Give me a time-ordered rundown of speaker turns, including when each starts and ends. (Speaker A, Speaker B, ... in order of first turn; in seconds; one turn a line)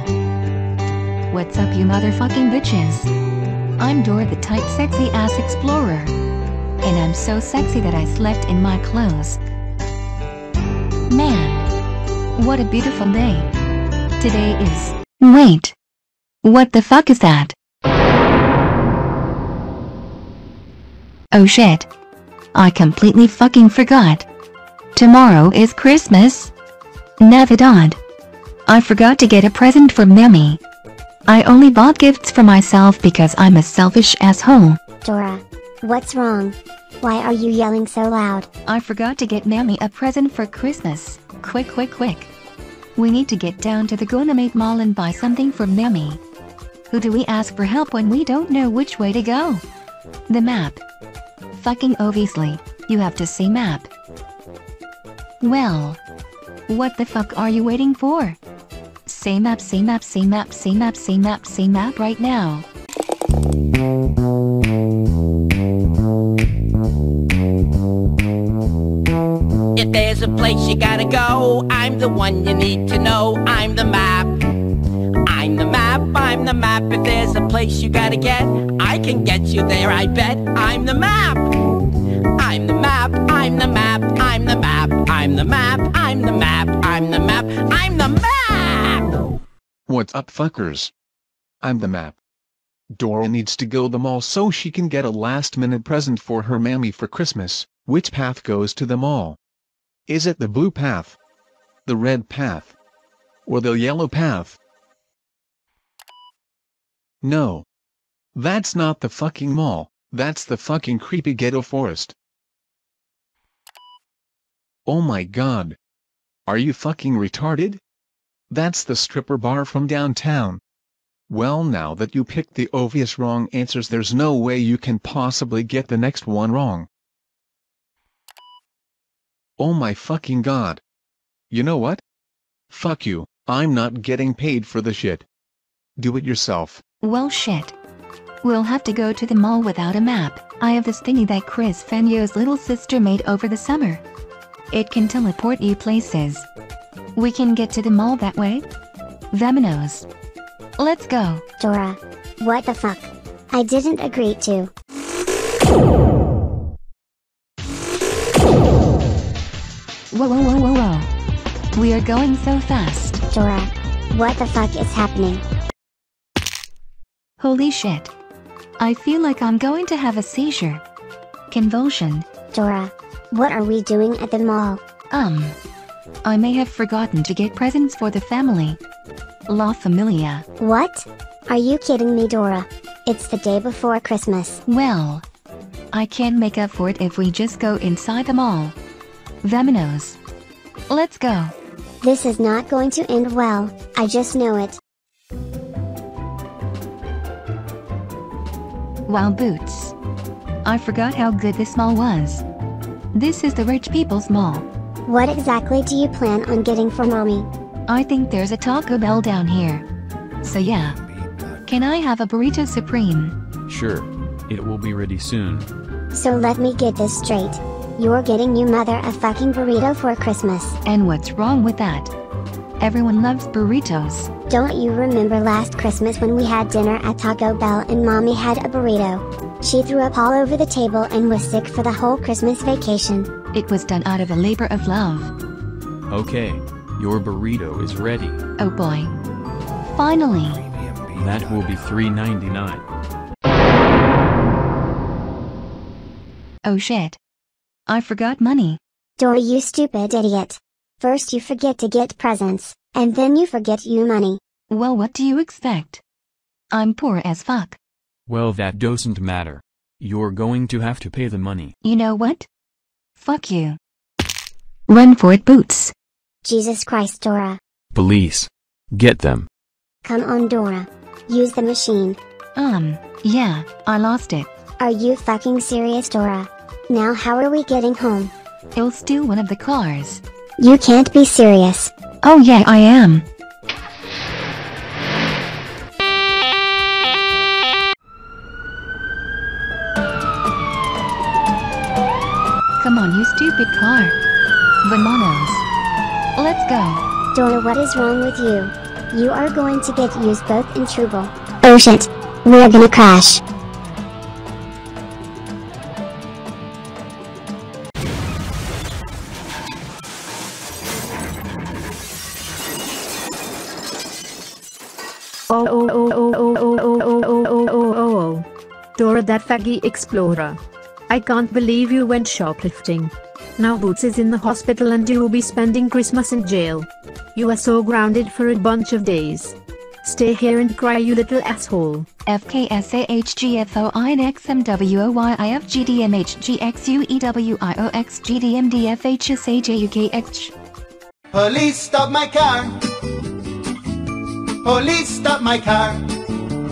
Speaker A: 1.3-3.1
Speaker A: 3.8-6.1
Speaker A: 6.8-9.4
Speaker A: 11.1-11.7
Speaker A: 12.4-13.5
Speaker A: 14.2-15.8
Speaker A: 16.4-17.5
Speaker A: 21.3-21.9
Speaker A: 22.5-24.2
Speaker A: 24.9-26.5
Speaker A: 27.2-28.0
Speaker A: 28.7-30.6
Speaker A: 31.3-34.8
Speaker B: 35.0-38.5
Speaker A: 38.7-42.3
Speaker A: 43.0-46.2
Speaker A: 46.9-49.6
Speaker A: 50.3-50.8
Speaker A: 51.5-53.9
Speaker A: 55.4-56.0
Speaker A: 56.7-58.4
Speaker A: 59.0-62.7
Speaker C: 69.8-74.4
Speaker C: 75.2-89.3
Speaker D: 89.9-90.9
Speaker D: 91.6-92.2
Speaker D: 92.9-99.4
Speaker D: 100.1-101.2
Speaker D: 101.9-102.8
Speaker D: 103.5-104.6
Speaker D: 107.2-107.7
Speaker D: 108.3-112.2
Speaker D: 114.9-115.8
Speaker D: 116.5-117.8
Speaker D: 118.5-120.6
Speaker D: 121.3-126.9
Speaker D: 129.6-130.8
Speaker D: 131.5-132.0
Speaker D: 132.7-135.3
Speaker D: 136.0-136.8
Speaker A: 137.0-137.8
Speaker A: 138.4-144.0
Speaker A: 144.7-146.5
Speaker A: 147.2-148.7
Speaker A: 149.3-150.1
Speaker A: 150.8-151.4
Speaker B: 151.6-154.7
Speaker A: 160.1-161.1
Speaker A: 161.8-163.2
Speaker B: 163.3-165.4
Speaker A: 167.4-168.1
Speaker A: 168.8-170.8
Speaker A: 171.5-172.2
Speaker B: 172.5-174.8
Speaker A: 175.1-175.6
Speaker A: 176.2-178.8
Speaker A: 179.5-180.4
Speaker B: 180.6-184.6
Speaker A: 184.7-185.2
Speaker A: 185.9-188.8
Speaker A: 189.4-190.2
Speaker A: 190.9-191.5
Speaker B: 192.0-194.8
Speaker A: 199.1-199.9
Speaker A: 200.6-202.4
Speaker A: 203.1-204.7
Speaker B: 205.1-207.5
Speaker A: 207.9-209.9
Speaker A: 210.4-211.0
Speaker A: 211.7-213.4
Speaker E: 213.7-215.7
Speaker B: 216.1-220.8
Speaker A: 220.8-222.1
Speaker A: 222.8-224.3
Speaker B: 224.5-233.3
Speaker A: 233.5-235.3
Speaker E: 236.1-238.4
Speaker A: 238.6-239.1
Speaker A: 239.8-240.6
Speaker F: 240.9-241.8
Speaker E: 241.2-242.8
Speaker A: 246.6-247.2
Speaker A: 247.9-248.8
Speaker B: 249.2-254.4
Speaker A: 254.7-256.0
Speaker A: 256.7-257.8
Speaker E: 258.3-261.7
Speaker A: 261.8-262.5
Speaker A: 263.2-263.8
Speaker A: 264.9-265.9
Speaker B: 266.4-267.6
Speaker E: 267.9-269.5
Speaker B: 270.0-272.2
Speaker A: 272.6-274.5
Speaker B: 274.8-278.3
Speaker A: 278.7-280.2
Speaker B: 280.6-281.9
Speaker A: 282.2-283.2
Speaker A: 292.8-294.2
Speaker A: 294.8-295.6
Speaker A: 296.4-297.0
Speaker B: 297.3-303.4
Speaker G: 315.5-332.1
Speaker A: 332.2-340.5
Speaker F: 341.3-342.8
Speaker F: 344.6-346.1